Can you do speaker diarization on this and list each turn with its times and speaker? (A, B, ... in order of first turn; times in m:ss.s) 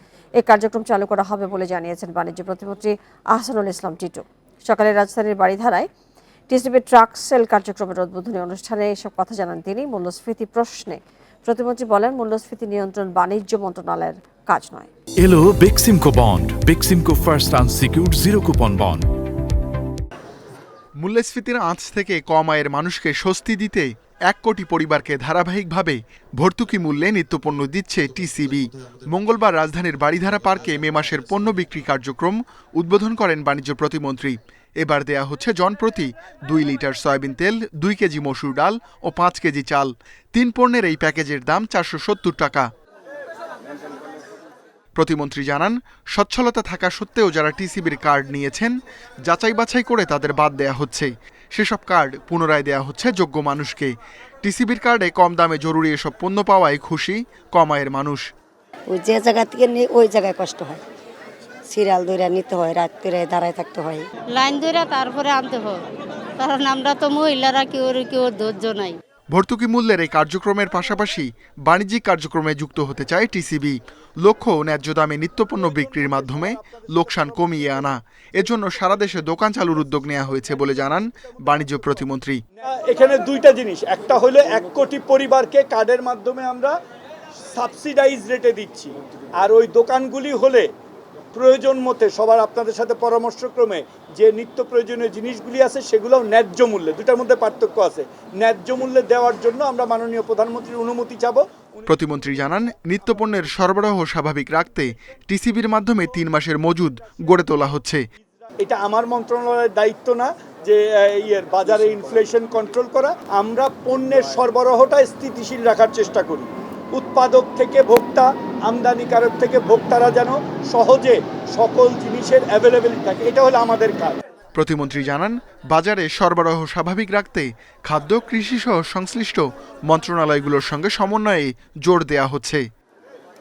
0:00.4-0:05.9 A
0:06.5-0:14.9 A
0:15.2-0:19.0 B
0:21.0-0:42.7 C
0:45.0-0:48.7 C
0:49.2-0:58.2 C
0:58.9-1:00.8 D
1:01.7-1:04.1 D
1:04.3-1:05.8 E
1:06.4-1:09.0 E
1:09.3-1:22.4 C
1:22.7-1:26.7 F
1:27.5-1:30.7 F
1:31.3-1:41.4 F
1:41.9-1:48.0 C
1:48.6-2:04.2 F
2:04.5-2:12.6 C